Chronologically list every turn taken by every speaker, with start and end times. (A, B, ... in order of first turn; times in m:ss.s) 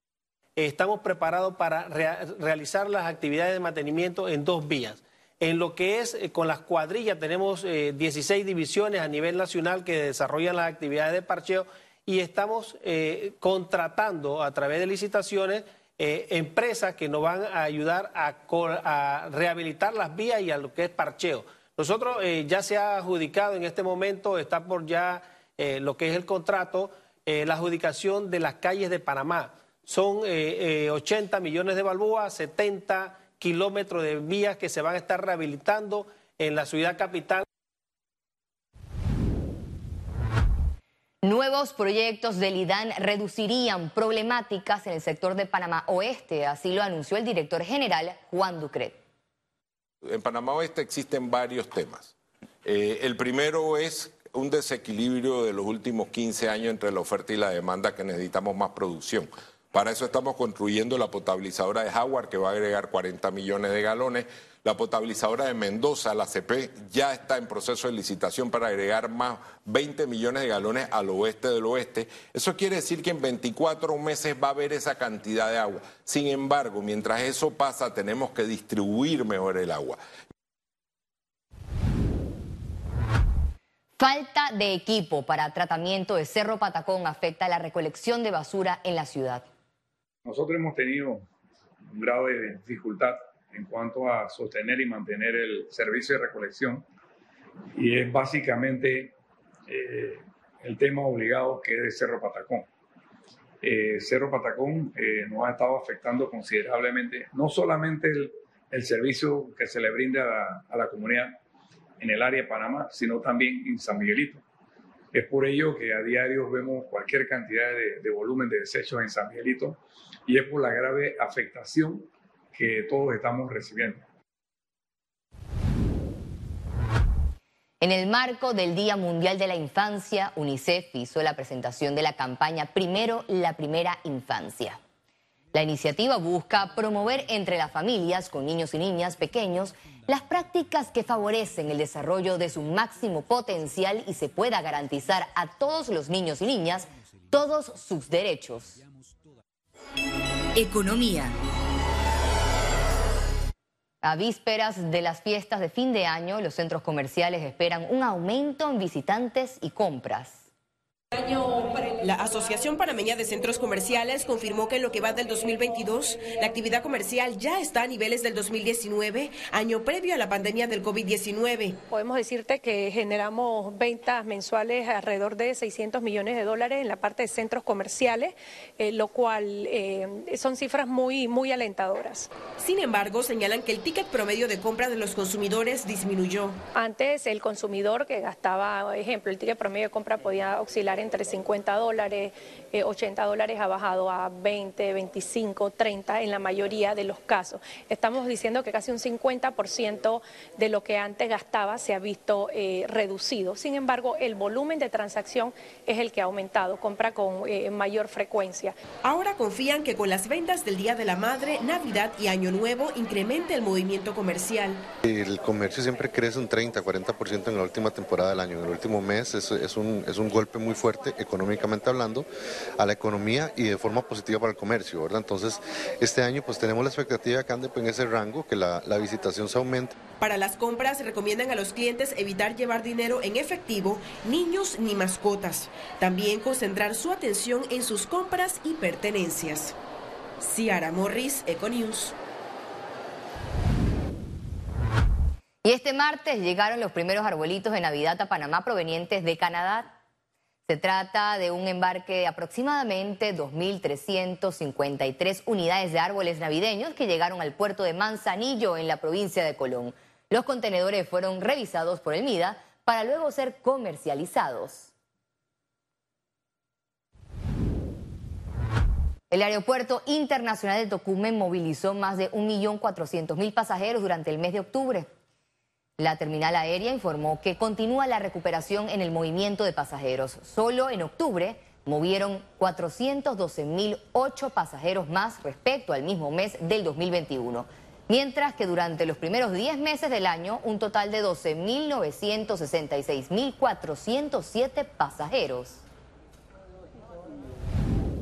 0:00.6-0:37.4 A
0:41.2-0:49.0 B
0:50.1-0:52.1 C
0:52.7-0:53.4 D
0:52.7-1:20.0 C
0:54.2-0:55.8 D
0:56.7-0:58.4 D
1:00.3-1:06.0 D
1:06.7-1:14.6 D
1:15.4-1:17.1 D
1:17.9-1:19.6 D
1:24.0-1:29.5 B
1:30.2-1:31.3 E
1:31.9-1:36.8 E
1:37.8-1:39.1 E
1:39.7-1:42.7 E
1:43.6-1:51.4 E
1:52.0-1:54.4 E
1:55.1-2:04.0 E
2:07.8-2:14.8 B
2:15.5-2:28.8 B
2:30.6-2:31.4 B
2:34.0-2:40.4 B
2:41.2-2:51.8 F
2:51.9-3:02.3 G
3:02.6-3:06.6 F
3:06.8-3:28.7 G
3:29.0-3:34.8 F
3:35.0-3:42.3 D
3:42.8-3:49.9 D
3:50.2-3:59.8 F
4:00.4-4:02.2 F
4:05.6-4:09.9 B
4:10.7-4:24.9 B
4:29.3-4:35.1 B
4:36.0-4:55.8 B